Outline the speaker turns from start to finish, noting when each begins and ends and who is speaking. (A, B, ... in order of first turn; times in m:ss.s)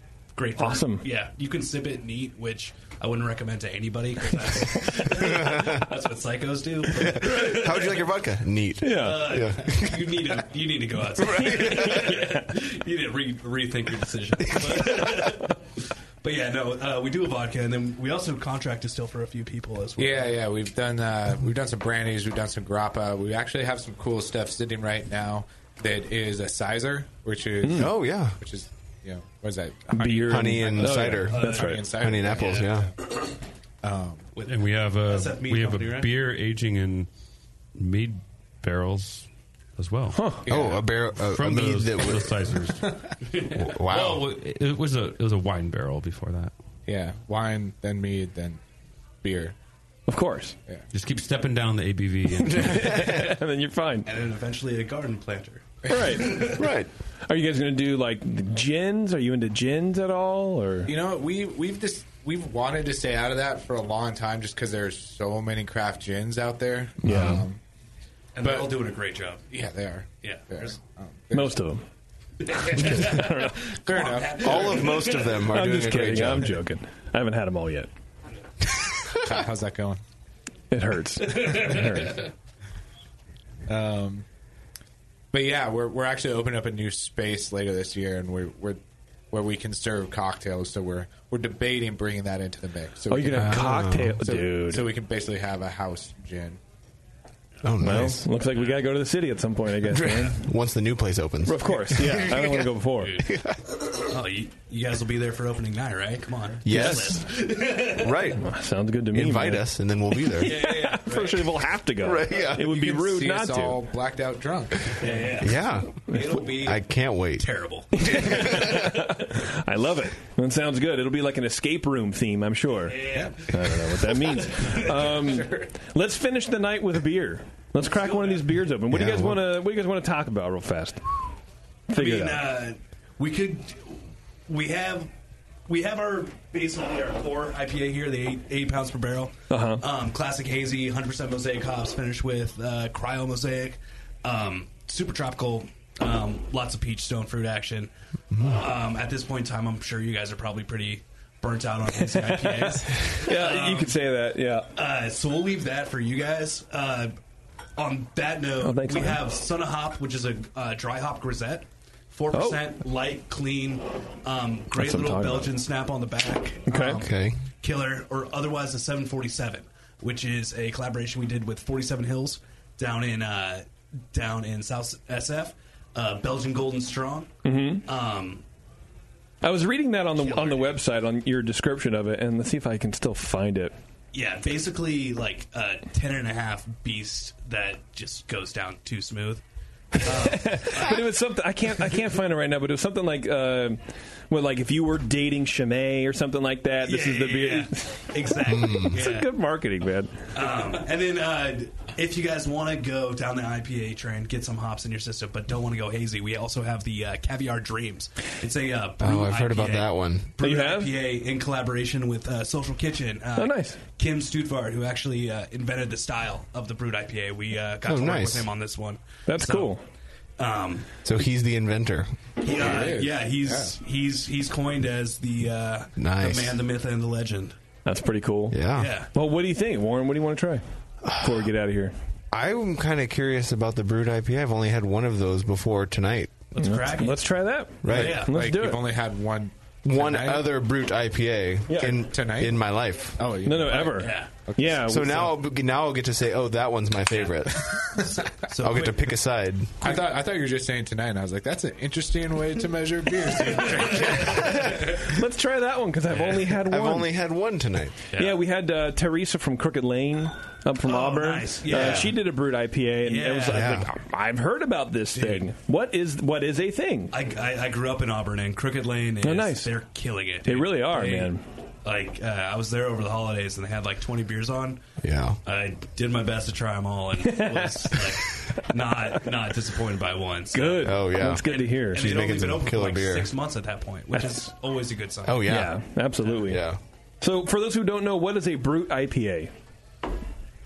0:00.3-0:08.1 A
0:00.6-0:01.0 B
0:05.1-0:05.9 C
0:07.0-0:10.2 C
0:08.8-0:09.4 B
0:08.9-0:20.3 A
0:11.4-0:12.1 C
0:11.7-0:12.3 B
0:20.0-0:33.0 D
0:27.6-0:27.9 B
0:27.7-0:28.4 C
0:29.9-0:31.8 B
0:30.2-0:32.9 C
0:31.2-0:32.7 A
0:33.8-0:34.3 D
0:34.3-0:36.1 A
0:34.4-0:37.1 E
0:37.7-0:40.4 E
0:40.1-0:40.4 B
0:40.4-0:40.8 D
0:40.5-0:42.5 C
0:41.1-0:46.5 E
0:43.4-0:43.6 A
0:43.5-0:44.2 C
0:46.9-0:48.6 D
0:49.2-0:49.5 D
0:50.1-0:50.5 B
0:50.9-0:53.1 E
0:52.5-0:54.1 B
0:52.6-0:53.3 C
0:54.0-0:56.6 A
0:55.8-0:56.6 B
0:56.4-0:56.9 C
0:57.2-1:00.9 B
1:00.9-1:07.6 D
1:07.0-1:07.4 C
1:07.0-1:07.4 B
1:08.4-1:09.4 A
1:08.4-1:08.8 D
1:09.5-1:11.6 D
1:10.2-1:10.7 A
1:11.3-1:11.8 B
1:12.4-1:15.5 A
1:12.7-1:13.8 B
1:12.8-1:14.9 D
1:14.3-1:16.6 C
1:15.4-1:17.9 B
1:19.1-1:20.0 D
1:20.7-1:22.2 B
1:21.3-1:22.2 A
1:23.7-1:24.2 D
1:25.3-1:28.8 D
1:29.3-1:36.6 D
1:33.1-1:34.9 B
1:33.3-1:34.2 C
1:37.6-1:38.2 C
1:37.8-1:40.4 B
1:39.9-1:43.7 C
1:41.4-1:43.2 B
1:43.0-1:43.3 A
1:44.1-1:48.2 A
1:46.6-1:48.4 C
1:46.7-1:47.2 B
1:48.3-1:53.8 B
1:49.1-1:50.6 C
1:50.3-1:51.5 A
1:52.0-1:52.7 C
1:52.4-1:55.1 D
1:55.0-1:56.8 A
1:55.4-1:59.0 C
1:57.4-1:58.8 A
1:57.9-2:11.0 B
2:02.8-2:05.1 A
2:03.1-2:03.4 D
2:05.2-2:05.6 D
2:07.8-2:08.4 A
2:08.9-2:09.5 C
2:11.9-2:12.4 B
2:11.9-2:15.1 A
2:15.7-2:34.0 A
2:19.5-2:19.8 B
2:28.3-2:28.6 C
2:32.3-2:34.7 B
2:34.7-2:37.2 A
2:37.8-2:57.3 A
2:38.6-2:39.2 B
2:42.3-2:42.6 B
2:44.8-2:45.5 B
2:46.7-2:47.0 B
2:46.9-2:47.4 C
2:57.4-2:57.8 B
2:57.8-2:58.4 A
2:59.4-3:03.7 B
3:00.2-3:00.7 A
3:04.1-3:09.4 A
3:09.9-3:11.0 A
3:10.0-3:20.3 B
3:16.8-3:19.3 A
3:18.4-3:19.0 C
3:20.3-3:39.7 A
3:29.0-3:30.3 C
3:30.4-3:30.9 B
3:33.4-3:33.8 B
3:37.8-3:38.5 C
3:39.3-3:39.8 B
3:40.4-3:40.9 A
3:41.0-3:42.1 C
3:42.4-3:47.6 A
3:42.5-3:43.8 D
3:46.0-3:46.6 C
3:47.8-3:48.6 B
3:48.5-3:48.9 C
3:48.7-3:49.1 A
3:49.1-3:51.9 B
3:51.0-3:51.5 C
3:52.3-3:56.4 C
3:56.5-3:57.2 A
3:56.6-3:58.8 B
3:57.8-3:58.3 C
3:57.9-3:58.4 A
3:58.0-4:00.5 D
3:59.8-4:03.2 C
4:01.7-4:02.0 B
4:01.7-4:02.6 D
4:03.2-4:04.8 D
4:03.4-4:05.4 B
4:03.7-4:04.3 A
4:04.6-4:09.8 C
4:08.3-4:09.2 A
4:09.8-4:15.0 D
4:13.5-4:14.9 A
4:14.2-4:14.8 C
4:14.9-4:17.1 B
4:16.1-4:16.4 A
4:16.5-4:17.9 C
4:18.1-4:18.4 A
4:18.2-4:27.1 B
4:20.8-4:22.2 A
4:23.0-4:23.8 A
4:23.5-4:23.9 C
4:25.2-4:25.4 A
4:27.1-4:34.8 A
4:29.2-4:29.7 B
4:30.4-4:31.4 B
4:35.0-4:35.4 C
4:35.4-4:45.5 A
4:37.2-4:38.7 B
4:40.5-4:42.1 B
4:40.8-4:43.3 C
4:44.2-4:44.5 B
4:45.2-4:45.8 C
4:45.4-4:46.7 B
4:46.4-4:46.8 C
4:47.2-4:49.5 B